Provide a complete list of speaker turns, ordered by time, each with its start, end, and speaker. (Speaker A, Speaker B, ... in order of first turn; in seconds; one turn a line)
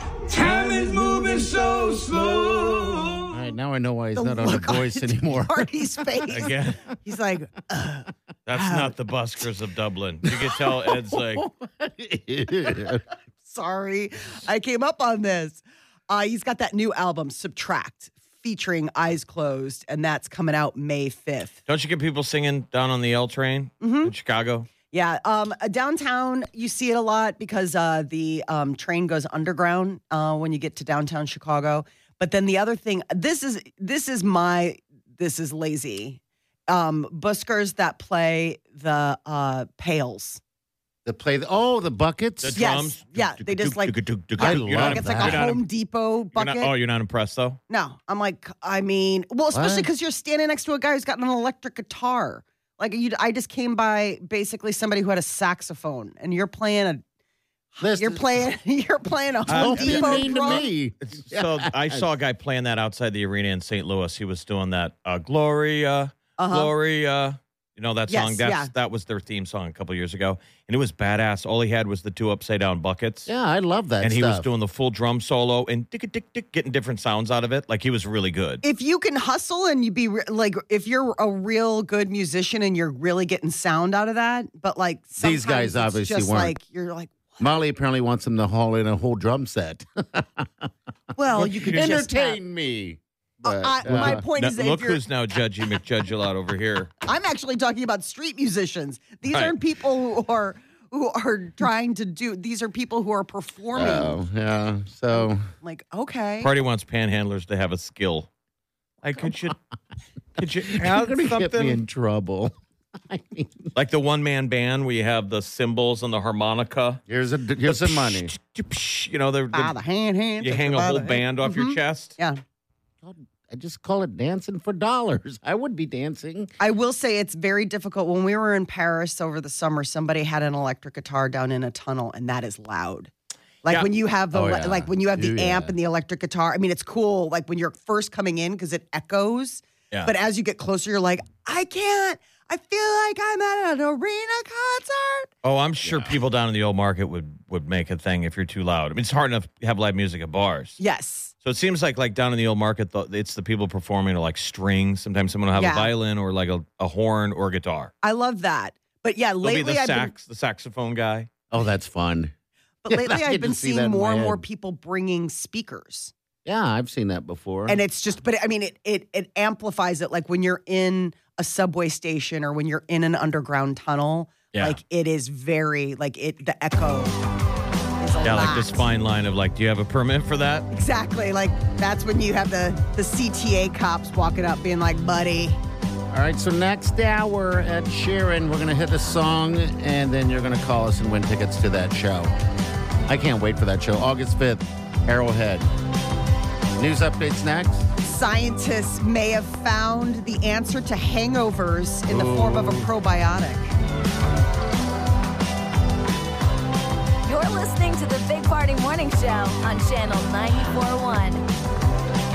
Speaker A: 0.3-3.4
Speaker B: 3.3-6.5
Speaker C: 4.2-6.5
Speaker D: 6.3-6.8
Speaker C: 7.0-8.9
Speaker D: 8.5-11.4
Speaker B: 10.3-13.0
Speaker C: 13.5-21.6
Speaker D: 21.7-24.7
Speaker C: 23.8-24.1
Speaker C: 24.9-40.4
Speaker B: 41.0-42.6
Speaker D: 42.4-45.6
Speaker C: 42.5-46.7
Speaker B: 44.4-45.5
Speaker D: 46.4-47.6
Speaker C: 47.7-57.0
Speaker B: 49.5-49.9
Speaker C: 57.8-60.7
Speaker B: 57.8-58.5
Speaker B: 59.5-62.1
Speaker D: 59.5-73.3
Speaker C: 66.4-66.7
Speaker C: 68.1-68.7
Speaker B: 73.3-74.5
Speaker D: 74.0-78.6
Speaker C: 78.6-87.4
Speaker B: 85.2-86.6
Speaker B: 87.4-90.7
Speaker C: 91.2-92.4
Speaker D: 91.4-91.9
Speaker B: 91.4-94.2
Speaker C: 93.4-95.0
Speaker D: 93.8-96.9
Speaker C: 97.0-104.2
Speaker D: 99.3-99.5
Speaker B: 103.8-105.4
Speaker C: 105.1-106.5
Speaker D: 106.4-108.3
Speaker D: 109.0-109.6
Speaker B: 109.2-109.5
Speaker D: 110.4-111.8
Speaker B: 110.7-112.5
Speaker B: 113.1-113.7
Speaker D: 113.8-117.0
Speaker B: 117.1-118.3
Speaker D: 117.7-119.8
Speaker C: 119.5-122.4
Speaker D: 120.4-122.2
Speaker B: 123.0-126.5
Speaker C: 126.6-133.1
Speaker C: 133.6-145.3
Speaker B: 134.3-135.8
Speaker D: 145.4-150.8
Speaker B: 145.8-146.2
Speaker C: 150.8-151.3
Speaker D: 151.4-157.9
Speaker C: 155.5-155.9
Speaker C: 158.0-160.1
Speaker D: 159.4-161.3
Speaker B: 161.5-162.3
Speaker C: 162.8-166.1
Speaker B: 162.9-164.4
Speaker B: 166.4-167.8
Speaker C: 167.7-177.2
Speaker D: 174.5-174.8
Speaker C: 178.0-178.9
Speaker D: 178.2-180.7
Speaker C: 180.7-185.6
Speaker B: 186.1-192.3
Speaker B: 193.1-195.7
Speaker B: 196.8-197.9
Speaker C: 198.0-203.7
Speaker B: 202.1-202.9
Speaker E: 207.2-211.4